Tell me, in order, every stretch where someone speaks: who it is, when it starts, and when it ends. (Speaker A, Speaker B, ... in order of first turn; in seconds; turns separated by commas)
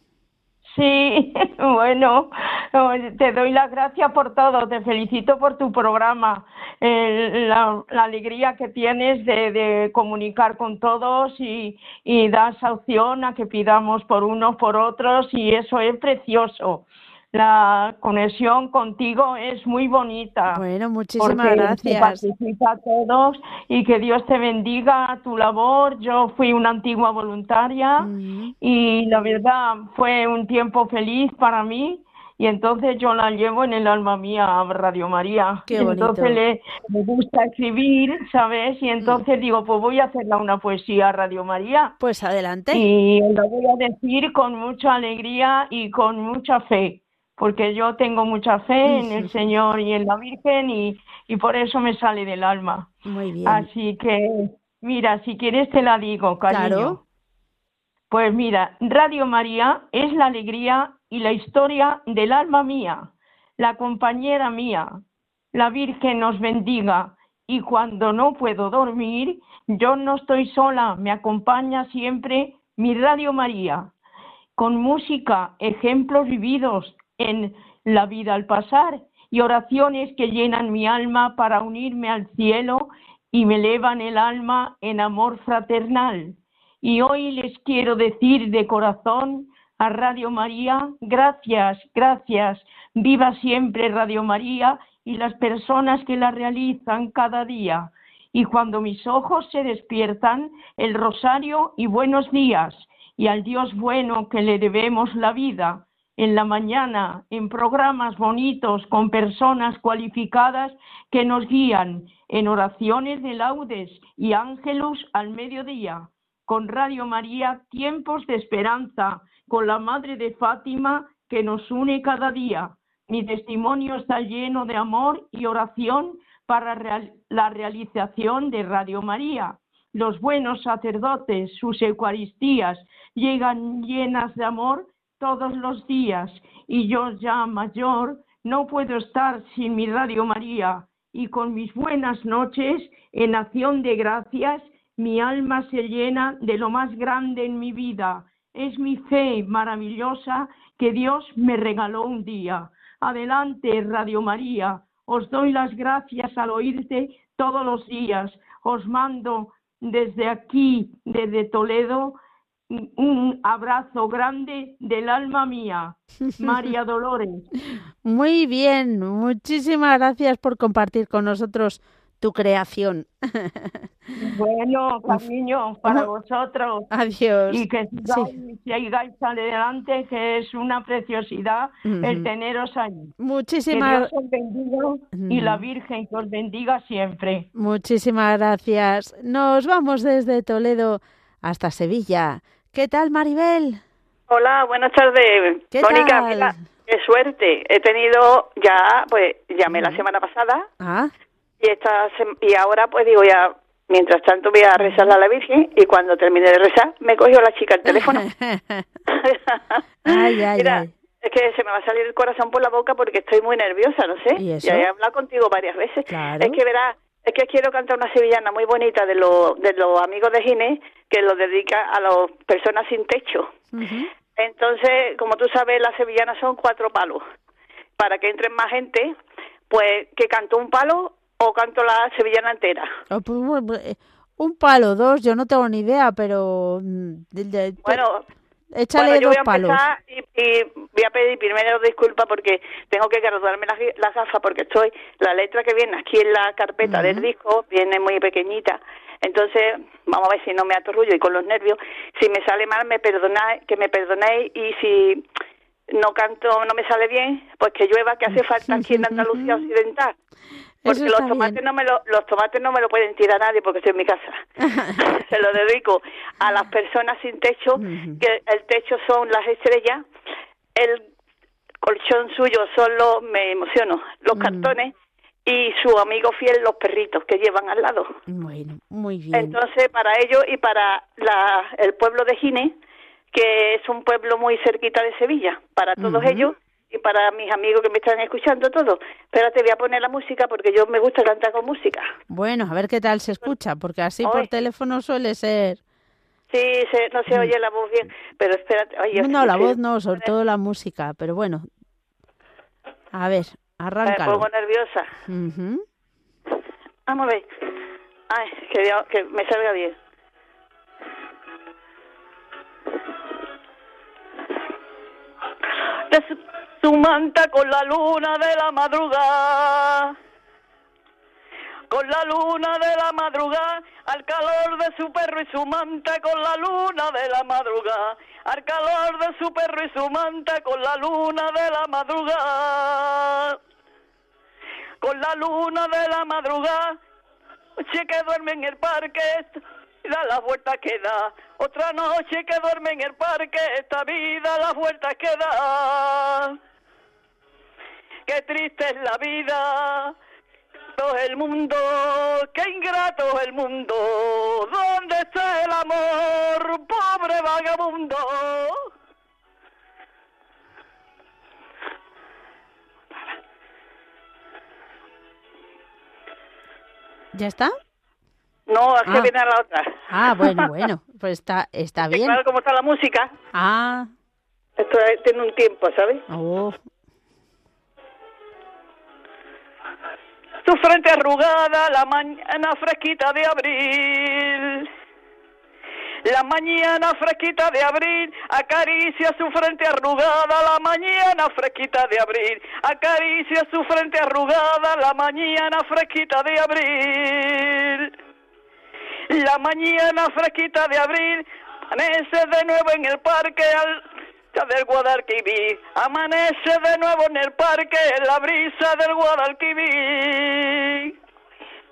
Speaker A: 0.6-20.6, Speaker B: 20.5-22.2, Speaker A: 21.2-28.1, Speaker B: 28.0-28.5, Speaker A: 28.6-41.9, Speaker B: 35.7-36.4, Speaker B: 42.0-42.9, Speaker A: 42.7-52.9, Speaker B: 48.9-49.3, Speaker B: 53.0-53.7, Speaker A: 53.4-57.0, Speaker B: 56.5-57.0, Speaker A: 58.1-65.0, Speaker A: 65.5-73.9, Speaker A: 74.6-162.2, Speaker A: 162.7-167.5, Speaker B: 168.0-173.9, Speaker A: 174.1-176.9, Speaker B: 176.9-178.3, Speaker A: 177.5-183.1, Speaker B: 181.8-182.3, Speaker B: 183.2-184.1, Speaker A: 183.7-187.5, Speaker B: 185.1-185.6, Speaker B: 187.5-193.8, Speaker C: 194.3-200.7, Speaker B: 195.7-196.5, Speaker B: 199.7-200.0, Speaker B: 200.8-201.1, Speaker C: 201.6-208.2, Speaker B: 204.8-205.1, Speaker B: 207.9-208.8, Speaker C: 209.1-223.5, Speaker B: 210.0-210.9, Speaker B: 214.4-214.9, Speaker B: 216.1-216.6, Speaker B: 223.7-224.1, Speaker C: 224.3-227.2, Speaker C: 228.0-229.1, Speaker C: 229.7-232.9, Speaker B: 233.1-238.0, Speaker C: 237.8-238.2, Speaker B: 238.7-239.8, Speaker C: 238.9-255.2, Speaker B: 246.8-247.2, Speaker C: 255.9-260.1, Speaker B: 258.7-259.7, Speaker B: 260.8-261.6, Speaker C: 260.9-264.4, Speaker B: 264.6-264.9, Speaker C: 265.0-270.0, Speaker B: 267.8-268.2, Speaker C: 270.8-271.0, Speaker C: 271.8-274.9, Speaker B: 274.3-274.7, Speaker C: 275.4-278.1, Speaker B: 278.3-279.6, Speaker C: 279.3-282.7, Speaker C: 283.3-292.1, Speaker B: 286.0-286.5, Speaker B: 292.3-295.8, Speaker C: 296.5-299.8, Speaker B: 299.1-301.7, Speaker B: 303.1-304.5, Speaker C: 304.1-305.1, Speaker B: 305.3-305.8, Speaker C: 307.1-307.4, Speaker C: 308.3-309.9, Speaker C: 316.1-320.1, Speaker C: 321.9-333.6, Speaker C: 335.0-337.0, Speaker C: 337.8-346.6, Speaker C: 348.3-350.1, Speaker C: 351.0-358.9, Speaker B: 367.3-367.7, Speaker C: 368.7-370.8, Speaker B: 370.1-372.4, Speaker C: 372.1-373.3, Speaker B: 373.5-374.1, Speaker C: 374.8-376.2, Speaker B: 376.3-376.8, Speaker C: 380.6-384.9, Speaker C: 386.2-398.1, Speaker C: 399.3-404.0, Speaker C: 404.5-411.1